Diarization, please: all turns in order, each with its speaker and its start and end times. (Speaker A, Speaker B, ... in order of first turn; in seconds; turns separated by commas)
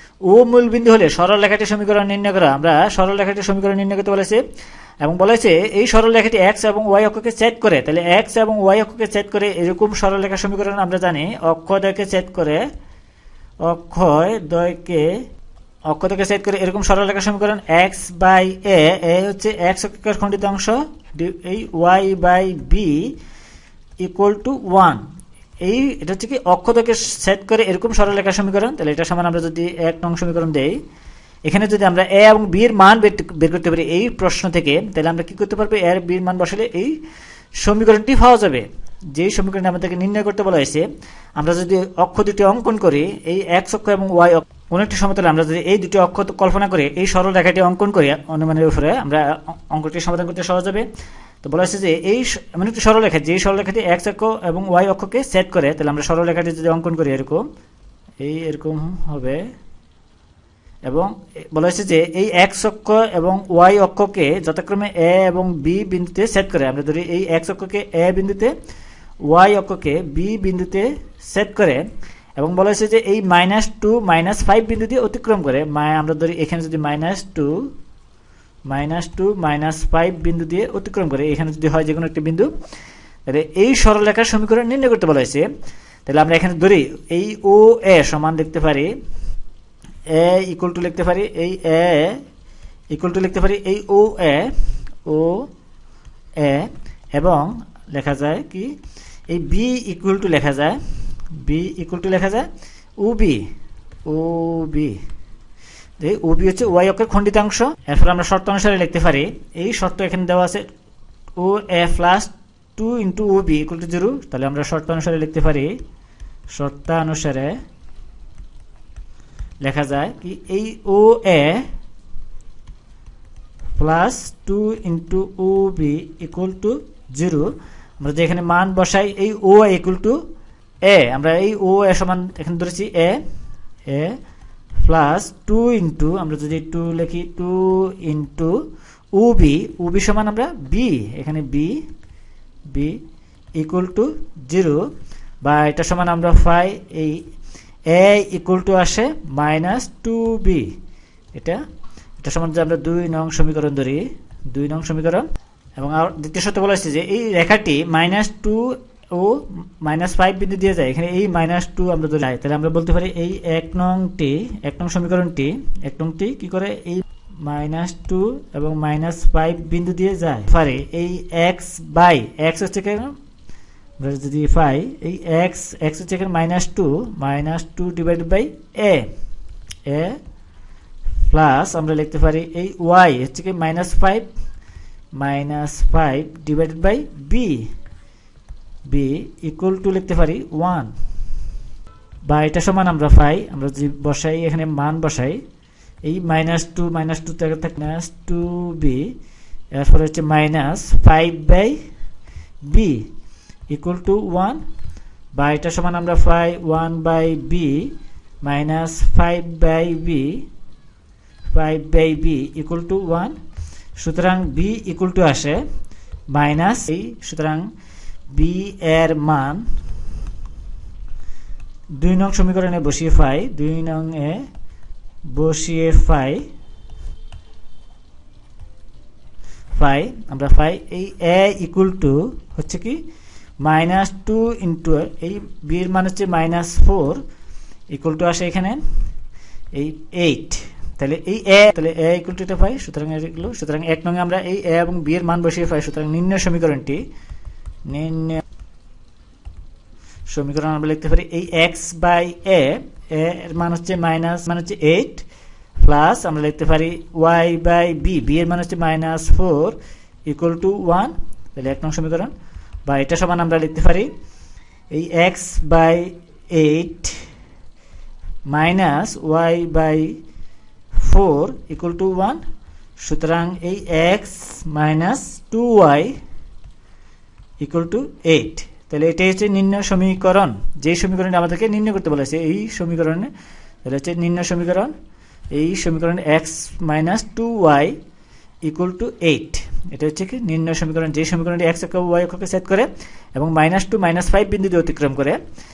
Speaker A: 0.3-4.4, Speaker A: 5.0-12.6, Speaker A: 13.6-15.1, Speaker A: 15.9-23.1, Speaker A: 24.0-25.0, Speaker A: 25.6-30.8, Speaker A: 31.4-37.0, Speaker A: 37.6-40.9, Speaker A: 41.4-50.9, Speaker A: 51.4-57.5, Speaker A: 58.2-59.4, Speaker A: 60.9-68.5, Speaker A: 69.2-71.9, Speaker A: 72.4-77.7, Speaker A: 78.7-82.5, Speaker A: 83.3-85.5, Speaker A: 86.1-88.9, Speaker A: 90.1-92.2, Speaker A: 92.9-94.5, Speaker A: 95.0-95.5, Speaker A: 96.4-98.8, Speaker A: 99.3-100.8, Speaker A: 101.3-102.5, Speaker A: 103.0-103.4, Speaker A: 104.1-105.0, Speaker A: 106.0-110.7, Speaker A: 111.4-115.8, Speaker A: 116.5-117.6, Speaker A: 119.6-121.7, Speaker A: 123.8-130.2, Speaker A: 130.8-133.2, Speaker A: 133.9-134.2, Speaker A: 134.8-138.6, Speaker A: 139.1-141.8, Speaker A: 142.7-143.0, Speaker A: 143.6-144.9, Speaker A: 145.4-147.2, Speaker A: 147.9-150.7, Speaker A: 151.3-151.6, Speaker A: 152.2-155.3, Speaker A: 155.8-173.2, Speaker A: 174.0-179.1, Speaker A: 179.9-180.2, Speaker A: 181.3-184.3, Speaker A: 185.2-187.7, Speaker A: 188.9-190.9, Speaker A: 192.3-195.4, Speaker A: 196.0-199.1, Speaker A: 199.7-201.8, Speaker A: 202.6-203.1, Speaker A: 203.7-204.6, Speaker A: 205.3-207.9, Speaker A: 208.4-210.4, Speaker A: 211.5-213.4, Speaker A: 214.0-215.6, Speaker A: 216.3-217.7, Speaker A: 218.3-219.7, Speaker A: 222.0-224.5, Speaker A: 225.3-226.5, Speaker A: 229.7-233.0, Speaker A: 233.6-237.2, Speaker A: 237.9-238.8, Speaker A: 239.7-247.1, Speaker A: 247.9-248.4, Speaker A: 250.3-255.2, Speaker A: 255.8-262.3, Speaker A: 262.9-264.1, Speaker A: 264.9-267.2, Speaker A: 268.5-270.2, Speaker A: 270.9-272.4, Speaker A: 273.0-276.2, Speaker A: 277.6-283.3, Speaker A: 283.8-284.9, Speaker A: 285.5-288.0, Speaker A: 288.6-295.4